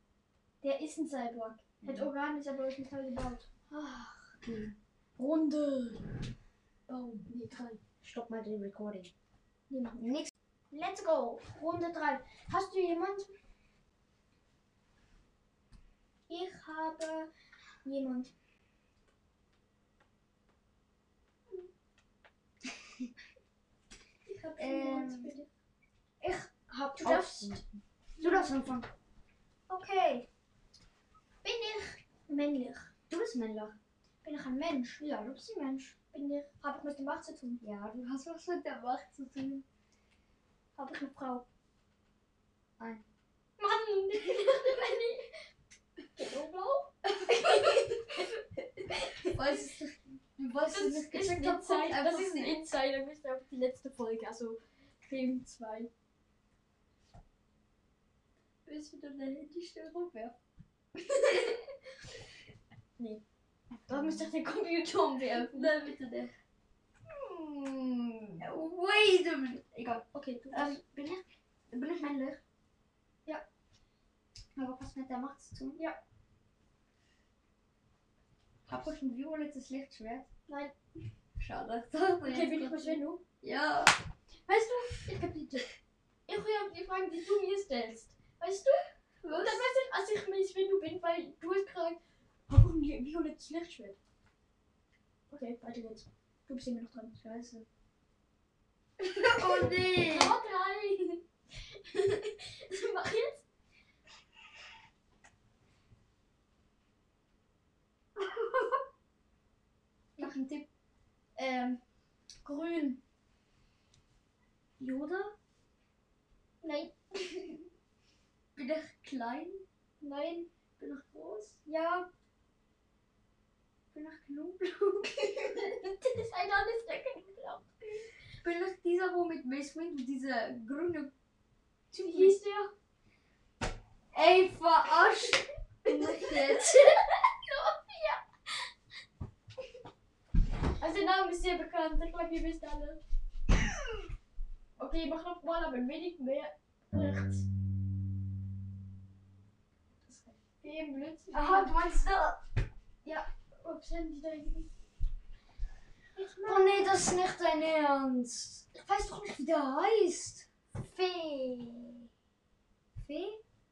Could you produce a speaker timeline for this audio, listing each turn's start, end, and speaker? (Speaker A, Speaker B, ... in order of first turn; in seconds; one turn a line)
Speaker A: 0.6-3.5
Speaker B: 1.8-2.1
Speaker B: 3.7-4.8
Speaker A: 5.2-6.2
Speaker A: 6.9-7.8
Speaker B: 8.0-9.1
Speaker A: 9.7-10.1
Speaker B: 10.0-10.3
Speaker A: 10.7-13.3
Speaker A: 16.3-17.3
Speaker A: 17.8-18.3
Speaker A: 24.2-25.5
Speaker B: 24.6-25.4
Speaker B: 26.2-28.9
Speaker A: 26.9-27.6
Speaker A: 28.2-28.5
Speaker A: 29.7-30.3
Speaker A: 31.4-32.9
Speaker B: 33.1-33.8
Speaker A: 34.2-37.6
Speaker B: 37.6-39.6
Speaker A: 40.8-41.5
Speaker B: 42.8-43.0
Speaker A: 43.6-45.3
Speaker A: 46.1-48.2
Speaker B: 47.3-48.0
Speaker A: 49.0-49.7
Speaker B: 49.3-52.6
Speaker A: 50.6-55.9
Speaker B: 58.6-60.4
Speaker B: 61.1-61.6
Speaker A: 63.0-63.2
Speaker A: 63.9-65.8
Speaker B: 63.9-64.3
Speaker B: 65.2-66.3
Speaker B: 67.1-72.4
Speaker A: 70.1-70.8
Speaker B: 74.5-75.8
Speaker A: 75.8-76.0
Speaker B: 78.7-80.3
Speaker A: 80.5-80.8
Speaker B: 81.4-84.0
Speaker A: 82.2-83.2
Speaker A: 84.5-85.7
Speaker A: 86.3-94.0
Speaker B: 89.2-89.7
Speaker A: 95.3-97.2
Speaker B: 97.2-97.7
Speaker B: 99.0-100.4
Speaker A: 99.2-101.2
Speaker A: 101.7-103.4
Speaker B: 108.2-108.8
Speaker B: 110.2-110.7
Speaker A: 111.4-111.8
Speaker A: 112.4-113.0
Speaker B: 114.8-115.3
Speaker A: 116.6-117.6
Speaker B: 118.5-119.6
Speaker A: 120.0-120.5
Speaker B: 120.8-121.6
Speaker A: 121.7-122.1
Speaker B: 123.9-125.5
Speaker A: 125.6-128.1
Speaker B: 128.4-131.1
Speaker B: 131.9-132.4
Speaker A: 132.0-132.7
Speaker B: 134.1-137.0
Speaker A: 135.9-138.2
Speaker A: 140.8-143.0
Speaker A: 144.8-147.4
Speaker A: 150.1-151.8
Speaker B: 151.3-152.4
Speaker A: 153.0-154.7
Speaker A: 156.2-156.9
Speaker B: 156.4-162.1
Speaker B: 162.9-163.4